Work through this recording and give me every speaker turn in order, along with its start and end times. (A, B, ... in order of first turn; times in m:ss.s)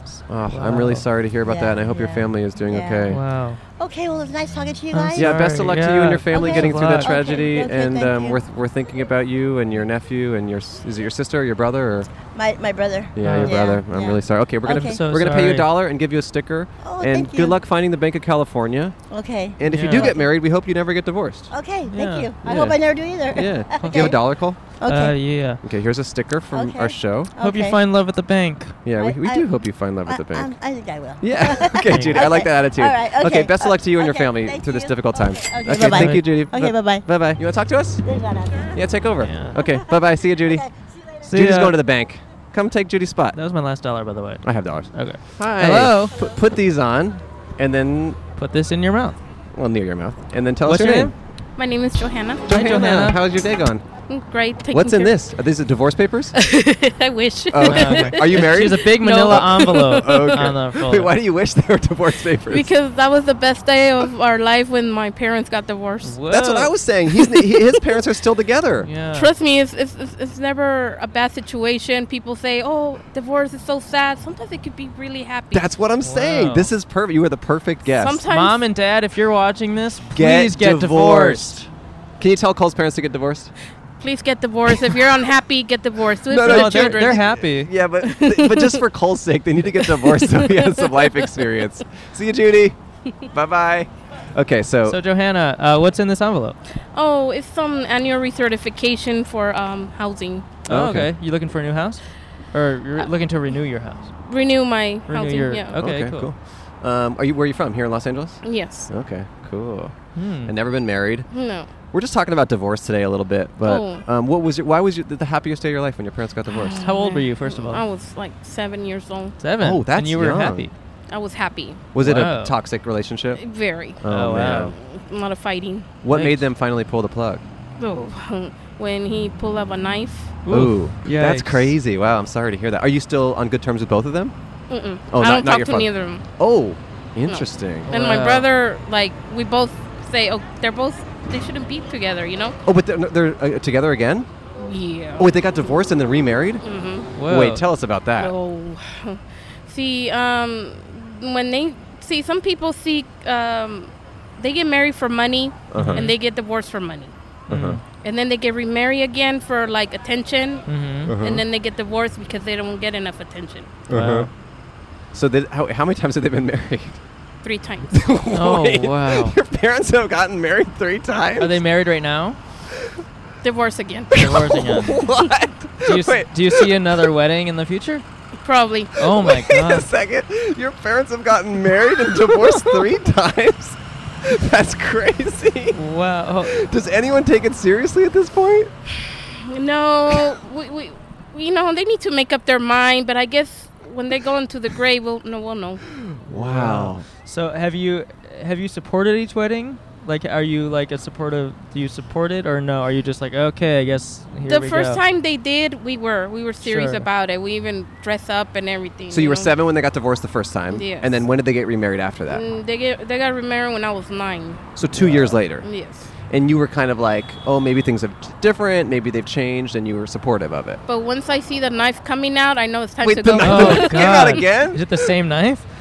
0:00.1-0:03.2 A
0:00.5-0:01.1 B
0:01.4-0:05.5 C
0:03.1-0:03.6 B
0:04.9-0:07.1 B
0:05.1-0:12.1 A
0:06.3-0:08.4 C
0:12.2-0:15.0 C
0:13.1-0:19.0 A
0:13.2-0:13.6 B
0:14.7-0:15.7 B
0:16.8-0:17.6 C
0:19.1-0:20.3 C
0:19.6-0:21.5 A
0:19.7-0:20.1 B
0:21.5-0:25.2 C
0:21.9-0:22.3 B
0:22.4-0:22.8 A
0:23.3-0:24.6 A
0:23.8-0:25.6 B
0:25.6-0:27.3 A
0:26.5-0:27.8 C
0:27.4-0:28.8 B
0:28.8-0:30.5 A
0:29.0-0:37.2 C
0:31.2-0:38.0 A
0:31.8-0:32.3 B
0:35.8-0:36.2 B
0:38.0-0:38.9 C
0:38.7-0:40.6 A
0:39.2-0:39.6 B
0:39.5-0:41.2 C
0:41.2-0:41.8 B
0:41.3-0:43.4 A
0:43.3-0:46.1 B
0:44.4-0:48.2 A
0:48.4-0:49.2 B
0:49.5-0:51.1 A
0:50.6-0:51.1 B
0:51.6-0:52.4 D
0:52.4-0:53.9 A
0:52.5-0:53.2 B
0:54.1-0:55.1 D
0:54.7-0:56.4 A
0:56.3-1:00.5 D
0:57.5-1:02.7 A
0:57.6-1:01.1 B
1:02.5-1:06.2 D
1:06.0-1:06.7 B
1:06.3-1:08.9 A
1:08.8-1:09.3 B
1:09.1-1:15.7 D
1:15.5-1:18.2 A
1:16.0-1:16.7 B
1:17.9-1:18.6 D
1:18.3-1:21.6 B
1:20.1-1:21.7 A
1:22.2-1:23.5 A
1:24.0-1:27.3 D
1:26.3-1:35.0 A
1:26.4-1:27.7 B
1:28.0-1:28.8 D
1:29.8-1:31.4 D
1:34.8-1:36.6 B
1:36.9-1:40.6 D
1:40.6-1:44.1 B
1:40.7-1:41.1 A
1:44.2-1:45.8 D
1:45.0-1:46.3 B
1:45.7-1:51.3 A
1:48.4-1:48.9 D
1:50.1-1:50.5 B
1:51.3-1:51.7 D
1:51.8-1:56.8 A
1:53.6-1:54.0 D
1:56.5-1:59.4 D
1:56.8-1:57.8 B
1:59.4-2:00.7 B
1:59.6-2:00.7 A
2:01.1-2:01.9 D
2:01.9-2:03.4 A
2:02.0-2:02.6 B
2:03.3-2:04.0 D
2:04.0-2:04.8 A
2:04.0-2:04.7 B
2:04.7-2:05.9 D
2:06.0-2:07.4 A
2:06.1-2:06.4 B
2:07.8-2:10.4 D
2:10.4-2:11.7 B
2:10.5-2:14.3 A
2:14.7-2:16.2 D
2:15.1-2:17.9 A
2:17.2-2:22.6 D
2:17.9-2:18.4 B
2:22.6-2:24.3 A
2:24.6-2:25.3 D
2:25.2-2:26.6 A
2:26.6-2:27.1 D
2:27.1-2:27.6 B
2:27.2-2:28.3 A
2:28.2-2:37.1 D
2:35.7-2:36.1 A
2:35.7-2:36.1 B
2:37.5-2:37.8 A
2:37.5-2:37.8 B
2:38.0-2:43.8 D
2:40.6-2:41.1 B
2:41.0-2:41.4 A
2:43.9-2:44.3 A
2:43.9-2:44.3 B
2:45.1-2:47.0 A
2:47.4-2:48.0 D
2:47.9-2:51.6 A
2:48.3-2:49.4 B
2:51.4-2:52.4 B
2:53.4-2:55.0 D
2:54.1-2:55.0 B
2:54.2-2:57.0 A
2:55.8-2:58.0 B
2:58.4-2:58.9 D
2:59.0-2:59.9 B
2:59.0-3:05.8 A
3:05.7-3:06.6 B
3:06.4-3:08.7 A
3:09.3-3:15.8 D
3:16.0-3:17.0 A
3:16.3-3:25.0 B
3:24.4-3:29.5 D
3:26.6-3:27.0 B
3:29.1-3:32.4 A
3:30.7-3:31.2 D
3:32.3-3:34.6 D
3:34.8-3:35.7 A
3:35.0-3:35.4 B
3:35.6-3:36.1 D
3:36.2-3:40.8 A
3:40.8-3:44.5 D
3:43.0-3:44.8 A
3:43.4-3:45.6 B